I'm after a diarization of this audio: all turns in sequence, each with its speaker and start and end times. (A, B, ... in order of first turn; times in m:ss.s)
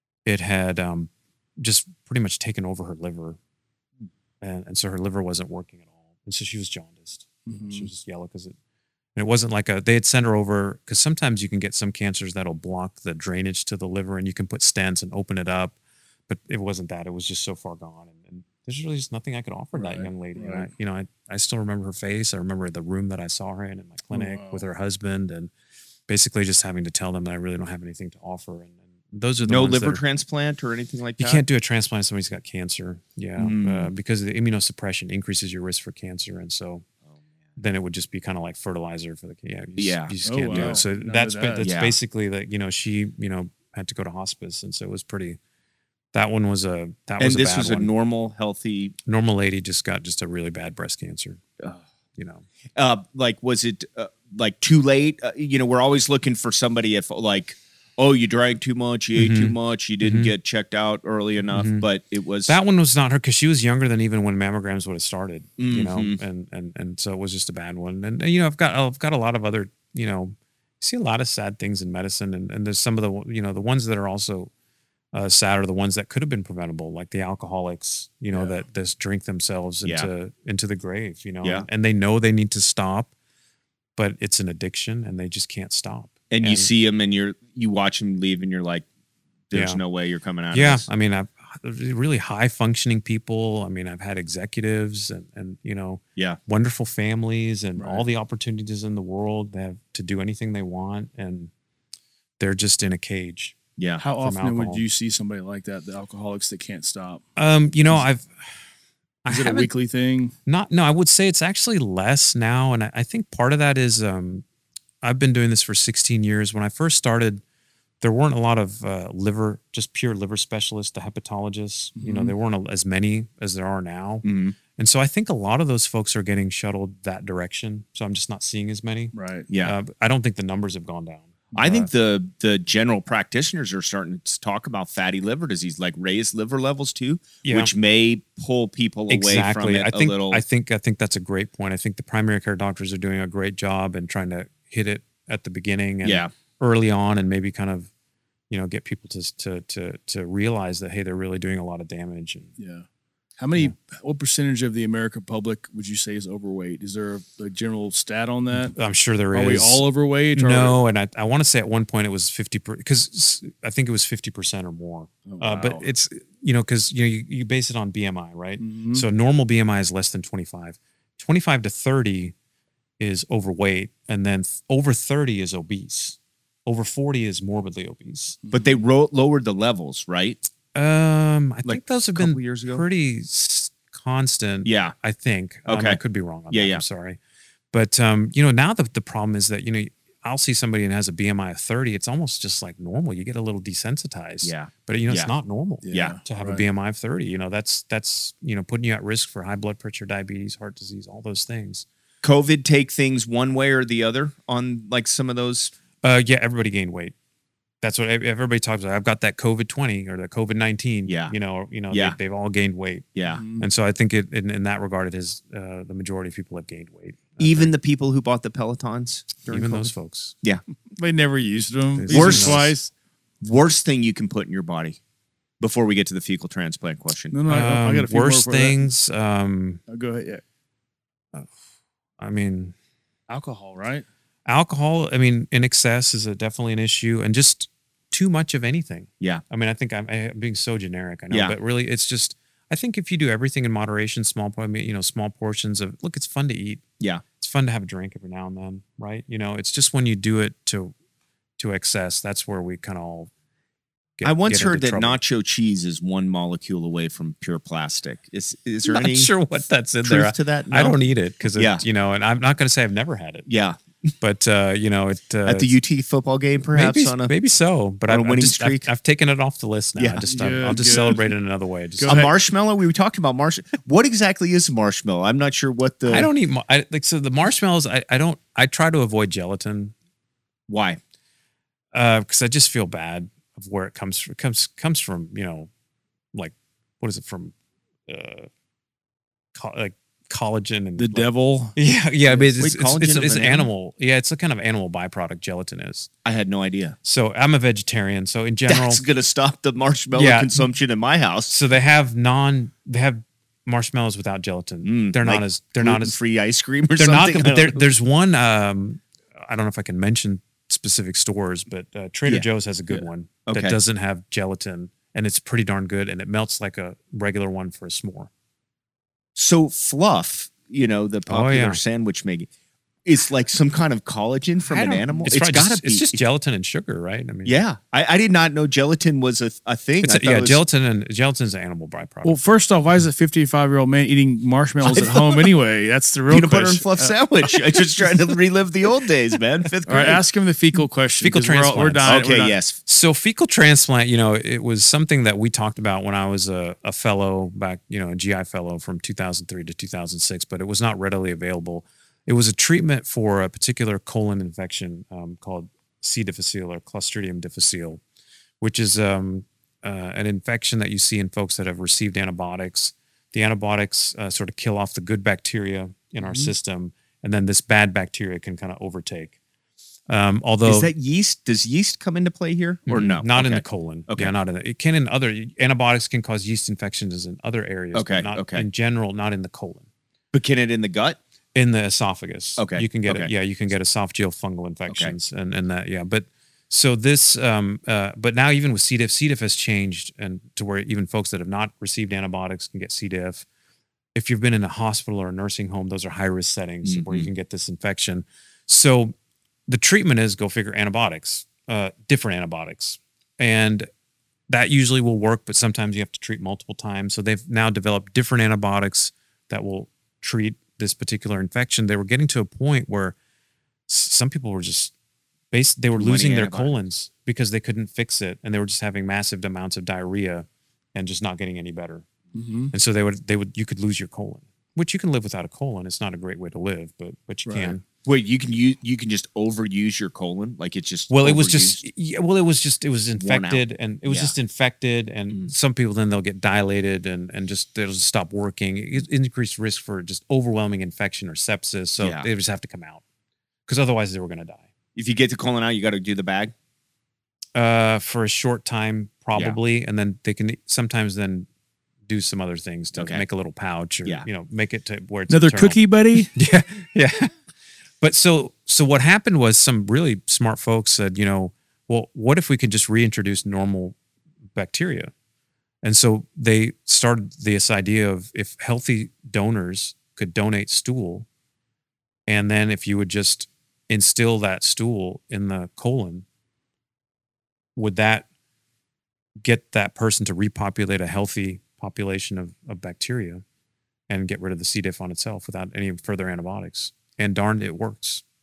0:00.2-0:03.4 A
0:04.4-0:08.6 A
0:07.4-0:07.9 B
0:09.1-0:15.8 A
0:16.3-0:25.5 A
0:19.7-0:20.7 B
0:24.1-0:24.6 B
0:26.1-0:30.0 A
0:29.4-0:31.4 C
0:31.2-0:36.8 A
0:33.4-0:33.9 C
0:37.6-0:45.4 A
0:39.8-0:40.8 C
0:40.2-0:41.7 B
0:41.6-0:41.9 C
0:46.1-0:47.9 A
0:47.2-0:49.0 C
0:49.0-0:51.4 A
0:52.2-0:52.4 A
0:52.8-1:02.6 C
0:59.1-1:00.3 A
1:01.5-1:01.8 A
1:02.5-1:14.5 A
1:05.6-1:06.2 C
1:15.1-1:23.1 A
1:19.8-1:20.1 C
1:24.0-1:26.7 A
1:26.3-1:28.8 C
1:29.5-1:30.8 C
1:29.5-1:29.8 A
1:30.5-1:41.5 A
1:37.8-1:38.0 B
1:42.4-1:43.6 A
1:43.8-1:44.0 C
1:44.0-1:47.2 B
1:44.1-1:44.8 A
1:47.4-1:48.3 A
1:49.2-1:49.7 A
1:49.3-1:50.3 B
1:50.4-1:54.4 A
1:55.0-1:57.4 A
1:58.0-2:04.2 A
2:02.0-2:02.3 B
2:04.2-2:04.5 C
2:04.8-2:11.9 A
2:09.1-2:09.5 B
2:09.5-2:09.7 C
2:11.6-2:20.4 C
2:17.4-2:17.7 A
2:19.1-2:27.9 A
2:26.0-2:26.3 C
2:28.5-2:32.5 A
2:32.6-2:32.8 B
2:33.4-2:38.7 B
2:38.5-2:52.3 A
2:39.3-2:40.8 B
2:45.3-2:45.9 B
2:48.6-2:49.0 B
2:53.0-2:58.4 A
2:58.4-2:58.7 B
2:58.5-3:00.4 C
3:00.7-3:07.2 A
3:01.6-3:02.8 C
3:04.6-3:04.9 C
3:05.6-3:06.0 C
3:06.5-3:06.8 C
3:07.7-3:21.8 A
3:14.4-3:15.3 C
3:15.8-3:16.6 B
3:15.9-3:16.2 C
3:22.2-3:25.7 C
3:26.0-3:27.1 A
3:27.8-3:37.7 A
3:31.1-3:31.3 C
3:31.9-3:32.2 C
3:33.2-3:33.4 C
3:33.3-3:33.6 B
3:37.4-3:39.9 C
3:39.5-3:40.3 A
3:40.9-3:42.9 B
3:42.0-3:42.7 A
3:42.1-3:42.7 C
3:43.4-3:45.0 C
3:45.6-3:47.4 C
3:47.3-3:48.8 B
3:47.5-3:49.8 A
3:49.9-3:50.4 B
3:52.2-3:52.7 A
3:53.3-3:54.0 B
3:54.4-4:06.8 A
4:07.4-4:10.9 A
4:11.6-4:13.3 A
4:14.2-4:15.2 A
4:14.2-4:19.3 C
4:18.8-4:23.5 A
4:20.0-4:21.0 C
4:21.5-4:21.8 C
4:23.5-4:23.8 C
4:24.2-4:25.7 A
4:25.4-4:27.3 C
4:26.7-4:32.2 A
4:28.1-4:28.9 C
4:30.0-4:30.2 C
4:30.3-4:31.3 B
4:32.0-4:32.3 B
4:32.0-4:36.3 C
4:36.1-4:39.9 A
4:40.7-4:41.0 C
4:41.9-4:45.7 A
4:46.3-4:47.5 A
4:48.1-4:48.5 A
4:49.5-4:56.1 A
4:51.0-4:51.8 B
4:52.6-4:53.7 C
4:56.2-4:57.0 C
4:57.0-4:59.0 A
4:58.7-5:01.5 C
5:00.1-5:00.6 A
5:01.5-5:06.2 A
5:04.8-5:07.8 C
5:07.0-5:18.3 A
5:12.3-5:13.8 C
5:19.4-5:22.5 C
5:21.3-5:21.8 A
5:23.0-5:26.2 C
5:24.7-5:27.6 A
5:27.4-5:30.6 C
5:30.0-5:32.4 A
5:32.2-5:37.5 B
5:34.8-5:35.5 C
5:36.3-5:40.2 C
5:39.8-5:42.6 B
5:41.2-5:42.2 A
5:42.0-5:42.8 C
5:42.8-5:58.0 A
5:58.6-6:09.4 A
6:10.1-6:10.9 A
6:10.6-6:14.3 C
6:12.9-6:19.9 A
6:17.9-6:18.6 C
6:20.3-6:21.2 C
6:21.5-6:33.4 A
6:22.6-6:23.3 C
6:24.9-6:25.1 C
6:34.1-6:39.1 A
6:36.8-6:37.3 C
6:39.7-6:43.9 A
6:44.5-6:53.2 A
6:53.9-6:54.9 A
6:55.5-7:02.1 A
6:56.0-6:56.7 C
7:02.3-7:02.7 B
7:02.7-7:07.8 A
7:07.4-7:07.7 B
7:08.0-7:11.8 C
7:11.1-7:23.0 A
7:13.2-7:14.3 C
7:22.0-7:22.3 C
7:23.7-7:24.7 A
7:25.0-7:26.5 C
7:27.5-7:31.5 A
7:32.0-7:35.8 A
7:32.9-7:33.2 C
7:35.3-7:36.3 B
7:36.3-7:37.3 A
7:38.0-7:44.0 A
7:44.5-7:45.1 A
7:45.8-7:51.3 A
7:52.3-7:56.2 A
7:57.8-7:58.2 A
7:59.4-8:03.4 A
8:04.1-8:08.2 A